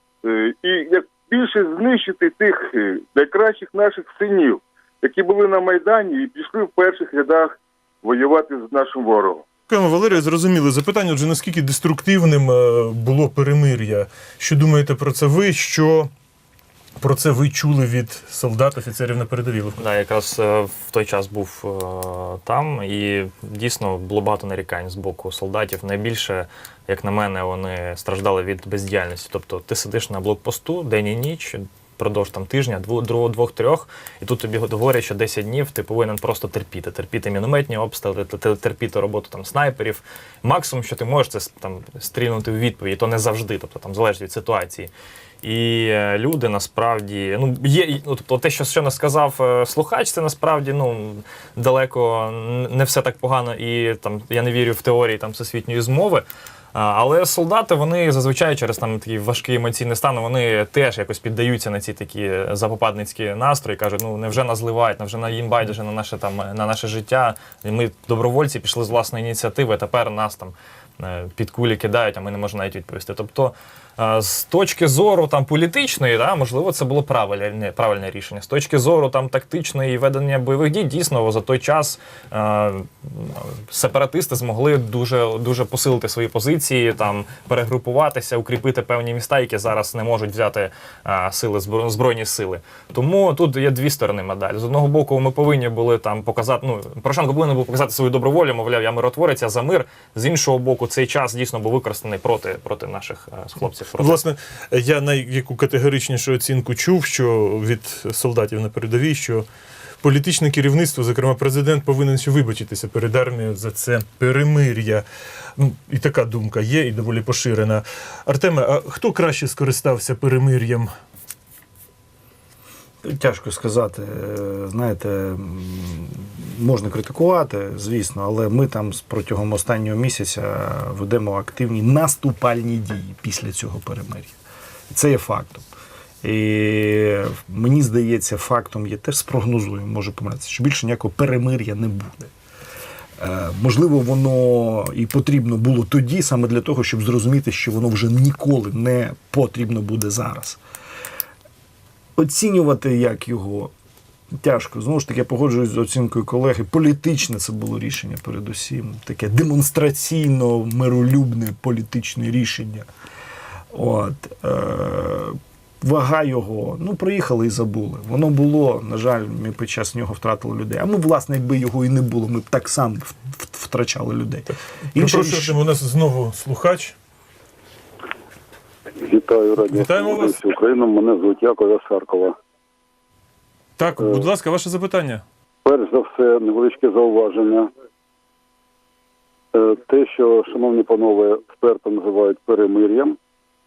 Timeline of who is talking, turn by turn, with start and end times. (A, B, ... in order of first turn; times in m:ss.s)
0:00.2-0:09.4 A
0:09.7-0:16.1 B
0:17.0-0:19.8 B
0:19.8-0:44.9 C
0:45.4-1:44.2 C
1:44.0-1:49.4 B
1:50.0-1:55.0 B
1:55.6-2:00.9 B
2:03.0-2:14.3 D
2:14.9-2:15.6 D
2:16.2-2:22.3 D
2:23.2-2:30.6 D
2:32.2-2:33.7 D
2:34.3-2:42.9 D
2:43.7-2:55.6 D
2:54.9-2:56.9 B
2:59.0-3:02.4 E
2:59.7-3:00.4 B
3:03.8-3:05.2 B
3:04.0-3:04.3 E
3:05.6-3:07.7 E
3:09.5-3:13.2 E